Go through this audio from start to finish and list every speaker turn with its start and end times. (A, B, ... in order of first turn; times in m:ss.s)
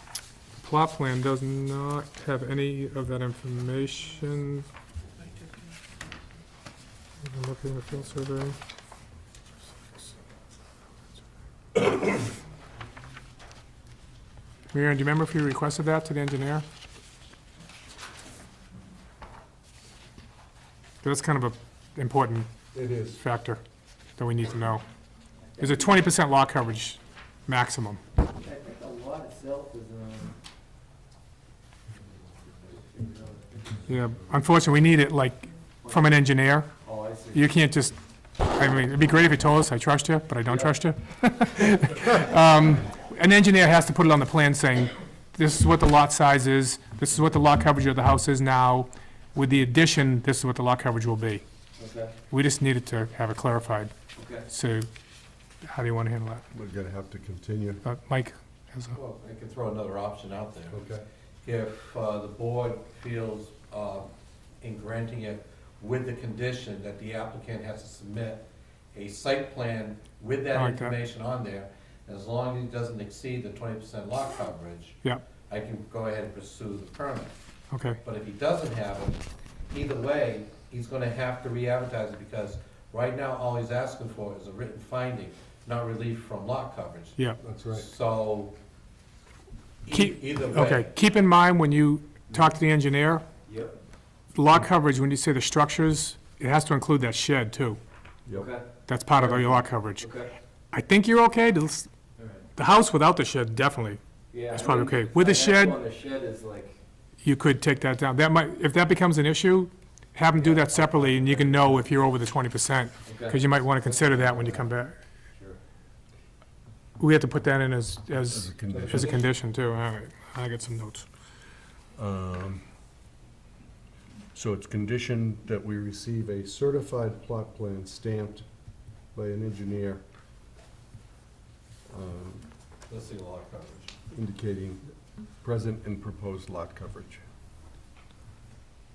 0:00.6-0:04.6 A
0:07.2-0:08.6 A
0:14.7-0:16.7 A
0:21.0-0:22.5 A
0:22.7-0:23.2 B
0:23.1-0:23.6 A
0:24.2-0:24.8 A
0:25.6-0:25.8 C
0:25.6-0:28.0 A
0:28.3-0:30.4 C
0:32.7-0:33.9 C
0:33.9-0:36.8 A
0:35.8-0:36.1 C
0:36.8-0:37.5 C
0:37.3-0:51.4 A
0:40.5-0:40.8 C
0:51.8-0:52.2 C
0:52.3-0:53.9 A
0:54.2-0:54.5 C
0:54.5-0:54.9 A
0:55.6-0:56.4 A
0:56.5-0:57.8 B
0:57.8-0:59.0 A
0:58.9-1:00.8 D
1:00.7-1:01.0 B
1:01.4-1:17.4 D
1:10.5-1:11.0 A
1:17.7-1:18.0 A
1:18.0-1:27.2 D
1:27.4-1:27.9 B
1:27.7-1:28.6 D
1:29.8-1:30.9 D
1:29.9-1:33.2 A
1:32.3-1:32.6 C
1:33.5-1:33.8 C
1:34.4-1:37.8 A
1:38.3-1:40.3 C
1:38.9-1:40.1 A
1:40.7-1:41.9 A
1:42.2-1:42.5 C
1:42.6-1:45.8 A
1:44.3-1:46.8 C
1:47.2-1:54.9 A
1:50.4-1:51.8 C
1:53.1-1:54.7 C
1:57.0-2:01.1 A
1:58.3-1:59.2 B
1:58.7-1:59.2 C
2:02.0-2:02.6 B
2:04.3-2:08.4 B
2:09.1-2:10.0 B
2:11.9-2:12.5 B
2:12.9-2:14.0 D
2:14.1-2:14.9 B
2:15.4-2:17.2 B